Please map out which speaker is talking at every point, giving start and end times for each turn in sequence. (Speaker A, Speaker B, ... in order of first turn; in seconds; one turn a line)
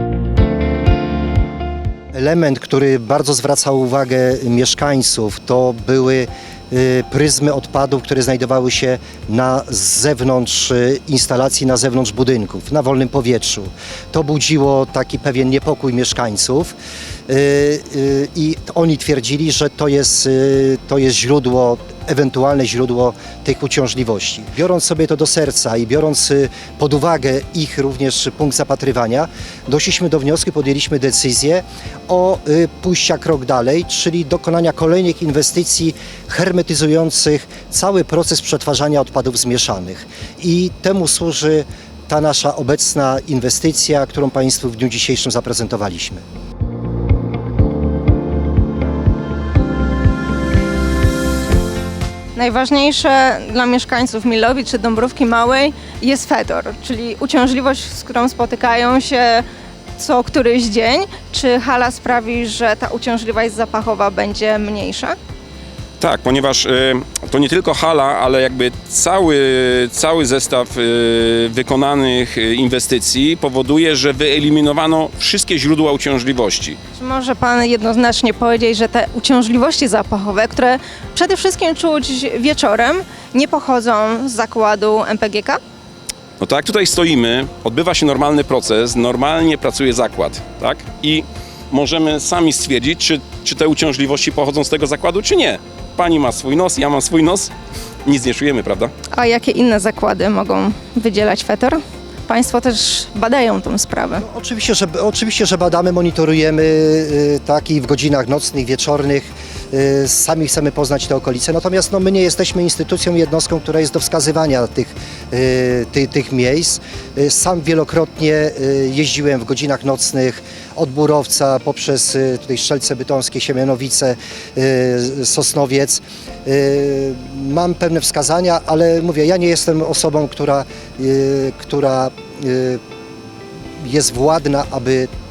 Speaker A: 2.1-46.2
Speaker B: 52.4-59.5
Speaker B: 60.0-65.2
Speaker C: 66.0-76.8
Speaker B: 77.0-85.6
Speaker C: 86.4-97.5
Speaker C: 98.0-98.9
Speaker B: 99.1-104.2
Speaker A: 104.2-132.8
Speaker A: 133.8-135.1